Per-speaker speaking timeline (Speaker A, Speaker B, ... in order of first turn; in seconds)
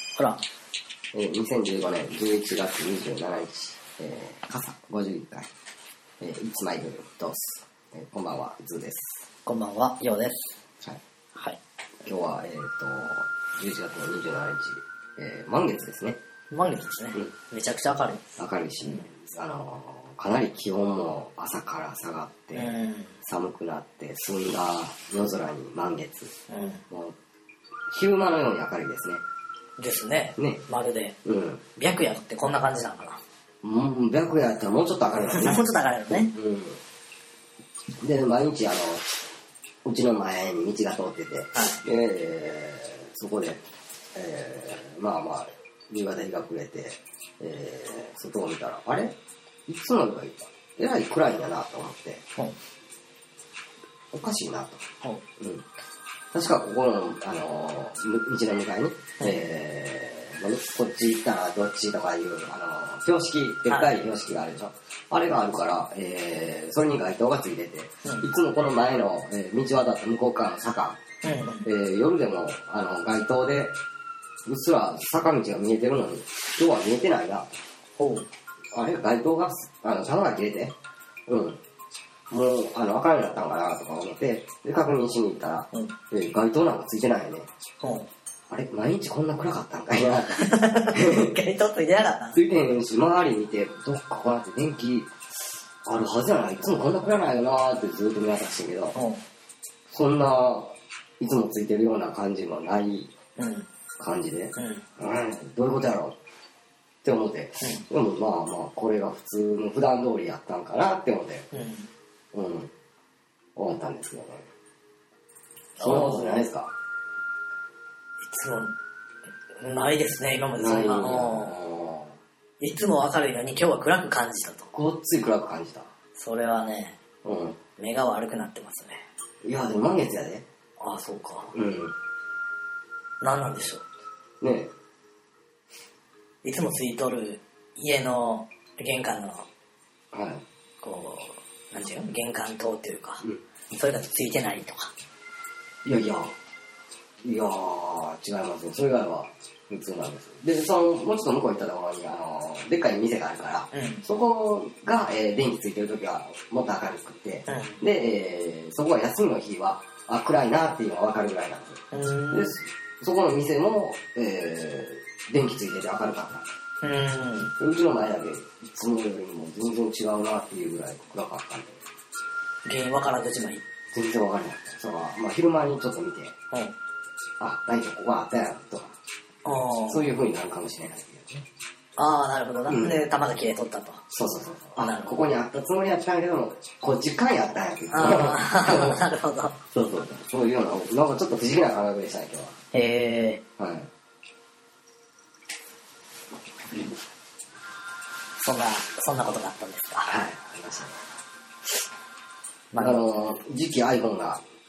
Speaker A: 0.1-0.4, 9.4-10.6, 16.5-18.2, 22.5-23.1, 26.5-26.8, 29.8-31.1, 31.8-33.2, 35.2-36.3, 68.0-68.3, 71.2-71.7, 78.0-78.3, 87.8-88.1, 90.4-92.4, 98.9-99.2, 103.4-103.7, 104.5-104.8, 111.5-111.9, 115.8-116.4, 118.2-118.7, 119.6-121.5, 122.6-124.7, 126.2-127.0, 127.8-129.0, 130.8-131.5, 133.2-133.8, 136.4-139.5, 140.8-144.9, 153.7-154.0, 157.5-157.8, 161.9-162.6, 166.8-167.5, 172.6-173.6, 179.4-180.1, 182.0-184.0, 184.8-185.2, 187.9-189.6, 192.7-193.4, 198.4-200.1, 202.7-203.0
Speaker B: 1.1-5.5, 6.2-9.2, 12.1-16.2, 18.4-26.3, 26.9-27.1, 27.9-29.2, 30.4-30.6, 31.2-31.6, 33.6-36.8, 38.0-39.0, 39.8-43.6, 44.1-49.1, 49.7-52.2, 54.1-54.8, 55.4-55.6, 56.3-71.0, 71.5-73.8, 74.5-77.6, 78.7-80.7, 81.3-81.6, 82.3-87.5, 88.5-91.3, 92.3-95.1, 95.8-99.0, 99.9-103.1, 104.0-106.2, 107.0-111.5, 112.3-112.7, 113.5-114.4, 115.8-116.7, 120.6-122.1, 124.7-125.9, 127.2-127.6, 129.4-130.4, 131.5-131.9, 134.4-134.7, 140.1-140.4, 145.8-146.3, 147.2-166.4, 167.4-171.8, 173.9-176.3, 177.4-178.9, 179.9-181.4, 182.7-183.0, 184.1-189.0, 189.7-192.6, 193.6-193.9, 200.0-201.0, 202.8-204.4